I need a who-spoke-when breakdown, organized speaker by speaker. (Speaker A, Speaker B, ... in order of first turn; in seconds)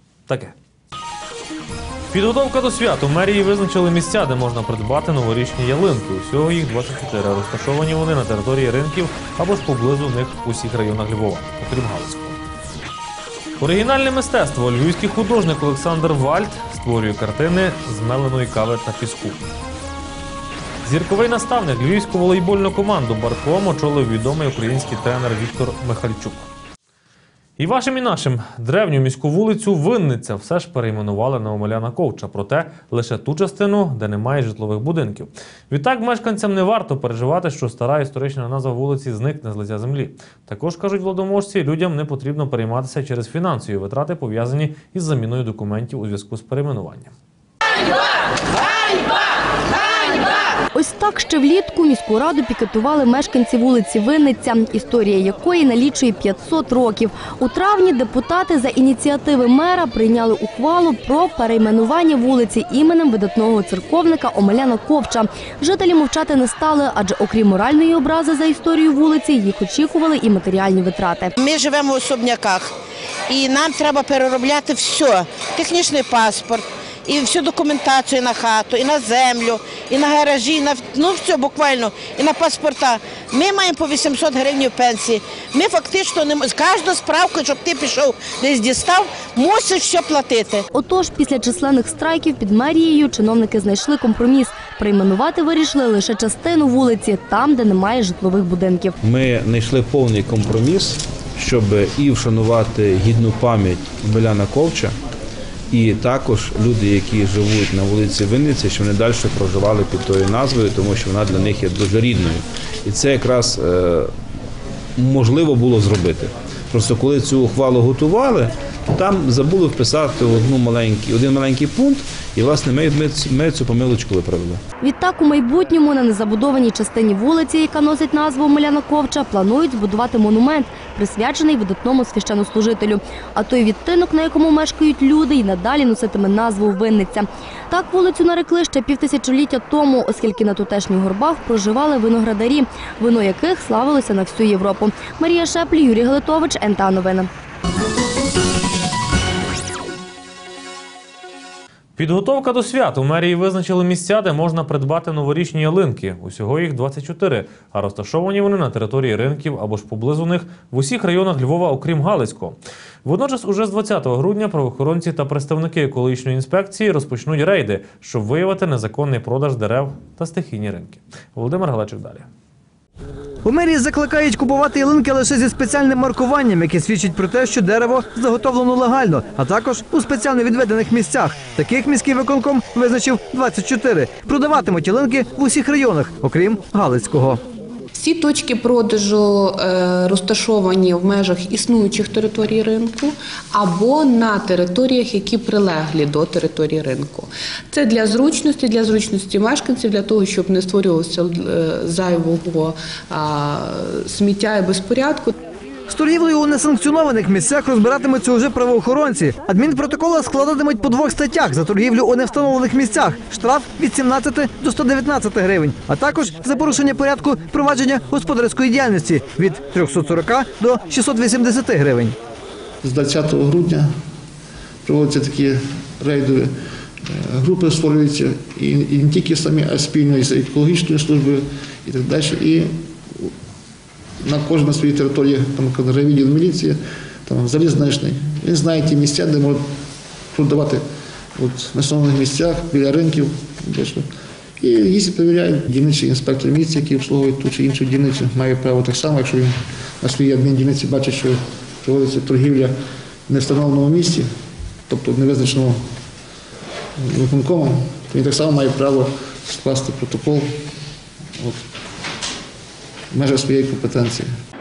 Speaker A: 0.3-0.5, 2.1-12.4, 13.6-19.4, 20.8-26.5, 27.6-47.1, 152.0-172.3
Speaker B: 50.7-71.3, 90.7-99.0, 124.8-147.3
Speaker C: 71.4-72.7, 73.3-90.7
Speaker D: 99.0-105.0, 105.7-114.1, 115.0-124.6
Speaker E: 173.4-187.4, 205.9-222.2
Speaker F: 187.9-205.3
Speaker G: 222.8-223.9, 224.8-233.3, 234.2-239.7, 240.3-240.8, 241.3-244.1, 244.6-252.7, 253.3-254.3, 254.9-255.8, 257.0-260.6, 263.1-264.3